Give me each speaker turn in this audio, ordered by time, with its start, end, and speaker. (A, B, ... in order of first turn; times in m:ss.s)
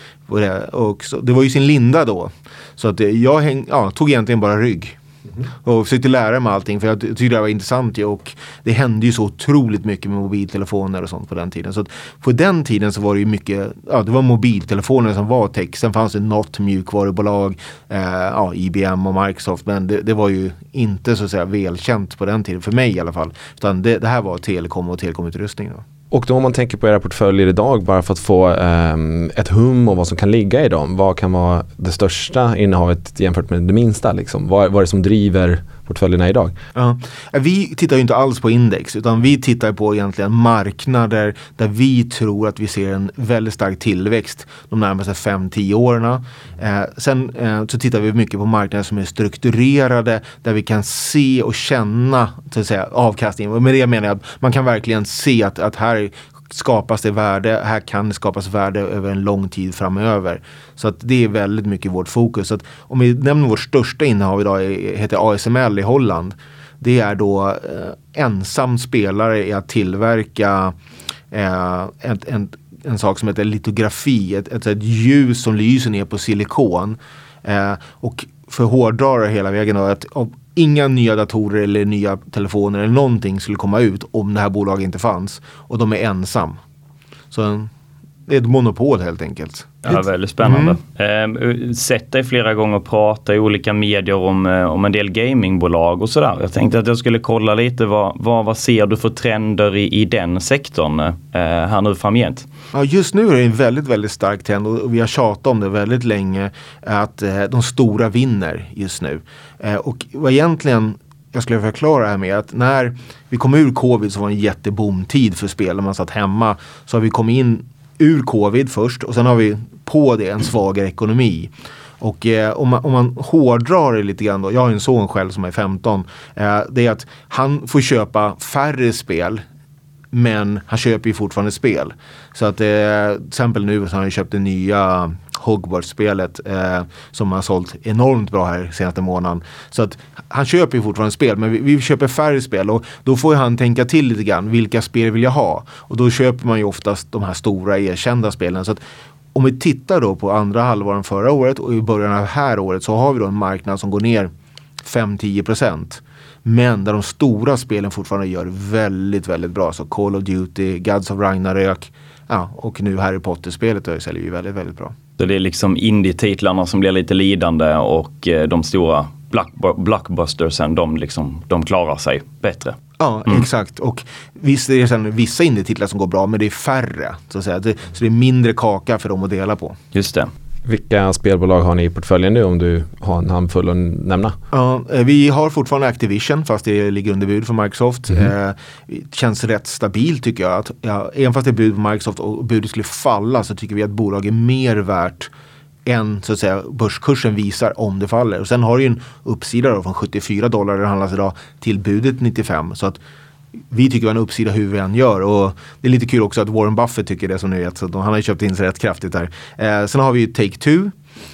0:00.3-0:05.0 A
0:05.6-0:25.8 A
0:26.1-0:36.5 B
0:36.7-1:10.7 A
1:11.3-1:26.6 A
1:27.3-1:27.7 A
1:28.3-1:30.8 A
1:29.8-1:42.4 C
1:42.7-2:09.4 A
2:10.1-2:28.8 A
2:29.3-2:34.3 A
2:34.8-2:44.9 A
2:45.2-2:52.8 C
2:53.0-2:59.8 A
2:59.9-3:00.3 C
3:00.6-3:04.4 B
3:04.5-3:15.3 A
3:15.8-3:23.0 A
3:23.7-3:30.9 A